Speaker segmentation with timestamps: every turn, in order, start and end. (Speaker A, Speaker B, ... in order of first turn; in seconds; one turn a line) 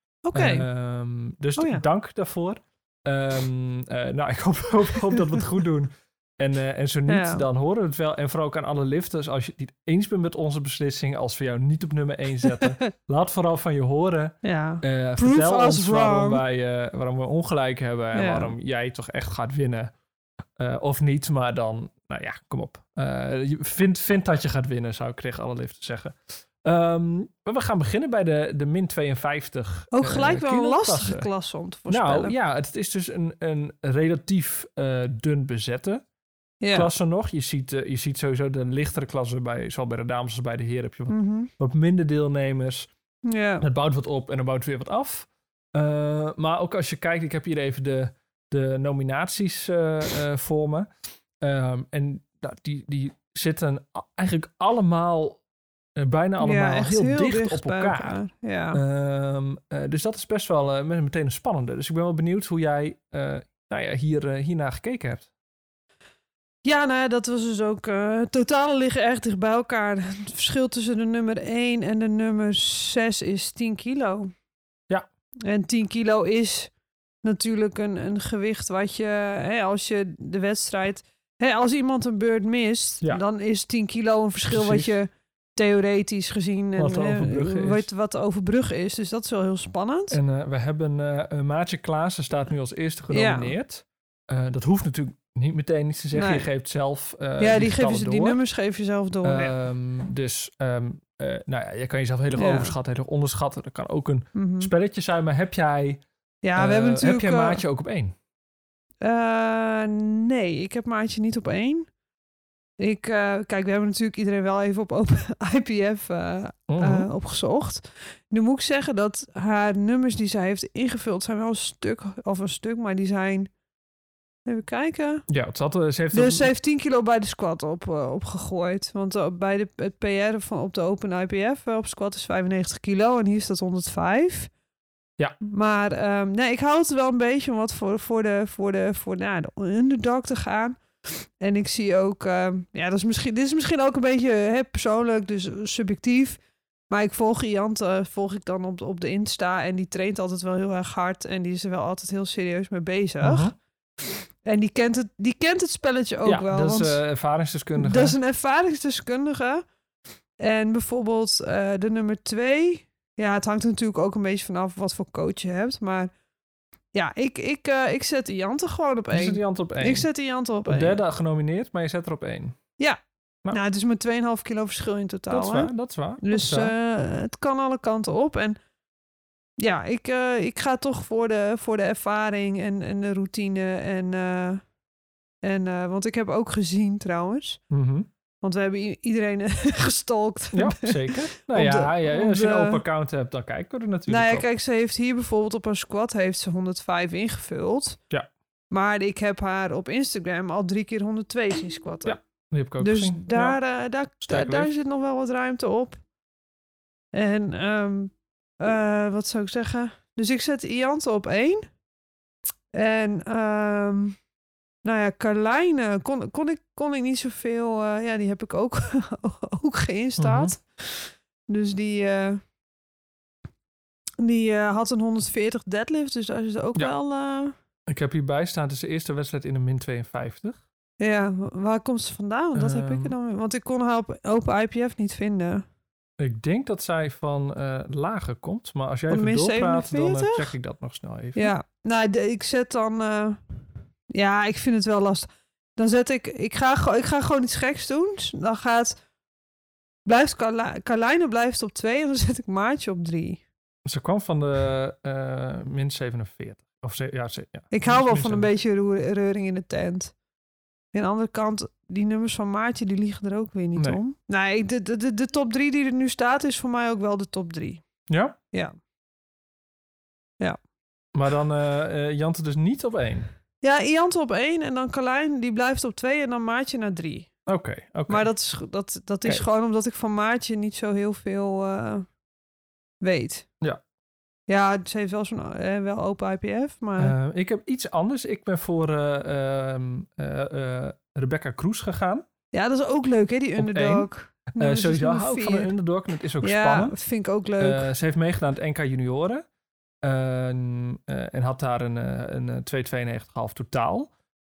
Speaker A: 0.3-0.7
Speaker B: 0.3-19.9
Speaker A: 1.6-1.8
Speaker A: 7.1-7.5
Speaker A: 12.5-12.8
Speaker A: 14.4-16.4
Speaker A: 18.1-18.5
Speaker B: 20.6-31.3
Speaker A: 29.9-32.3
Speaker B: 31.9-36.0
Speaker A: 36.6-36.9
Speaker B: 36.7-42.9
Speaker A: 41.1-41.5
Speaker A: 43.2-43.6
Speaker B: 43.6-50.9
Speaker B: 51.4-55.4
Speaker B: 56.0-58.2
Speaker A: 56.4-58.8
Speaker B: 58.7-65.3
Speaker A: 66.7-74.3
Speaker A: 75.4-76.7
Speaker A: 77.2-90.2
Speaker B: 84.5-84.9
Speaker B: 86.8-87.9
Speaker B: 90.1-98.4
Speaker A: 93.1-93.5
Speaker A: 96.1-96.5
Speaker A: 97.4-99.5
Speaker B: 99.2-106.0
Speaker A: 102.4-102.8
Speaker A: 104.3-104.7
Speaker A: 106.4-107.6
Speaker B: 106.5-108.1
Speaker A: 109.0-111.9
Speaker A: 112.8-123.5
Speaker B: 116.7-117.1
Speaker A: 124.5-125.3
Speaker B: 125.3-126.5
Speaker A: 126.1-134.5
Speaker A: 135.4-157.0
Speaker B: 153.2-153.5
Speaker B: 156.2-158.2
Speaker A: 157.8-159.6
Speaker A: 160.4-166.1
Speaker A: 166.9-171.0
Speaker B: 169.1-170.1
Speaker B: 170.7-172.6
Speaker A: 172.8-178.6
Speaker B: 175.3-176.7
Speaker A: 179.6-184.6
Speaker A: 185.4-187.6
Speaker B: 187.7-188.1
Speaker A: 188.4-192.8
Speaker B: 190.5-194.5
Speaker A: 194.1-198.0
Speaker A: 198.7-202.2
Speaker B: 202.1-203.6
Speaker A: 202.8-206.0
Speaker B: 204.2-204.7
Speaker A: 207.1-211.7
Speaker A: 212.7-214.2
Speaker A: 214.8-222.4
Speaker B: 220.2-220.5
Speaker A: 224.2-227.6
Speaker B: 227.9-230.6
Speaker A: 231.0-235.7
Speaker B: 232.6-233.1
Speaker B: 236.2-241.5
Speaker A: 239.1-240.5
Speaker A: 241.4-243.4
Speaker A: 244.1-249.0
Speaker A: 250.1-253.4
Speaker B: 253.8-258.5
Speaker A: 257.7-260.1
Speaker A: 260.9-267.8
Speaker B: 268.1-268.4
Speaker B: 271.1-273.3
Speaker A: 273.6-277.3
Speaker B: 277.5-278.3
Speaker A: 278.1-282.1
Speaker A: 283.0-283.5
Speaker A: 284.5-287.1
Speaker B: 287.0-292.3
Speaker A: 292.5-295.7
Speaker B: 293.6-297.0
Speaker A: 296.4-297.9
Speaker B: 297.6-299.4
Speaker B: 300.0-304.1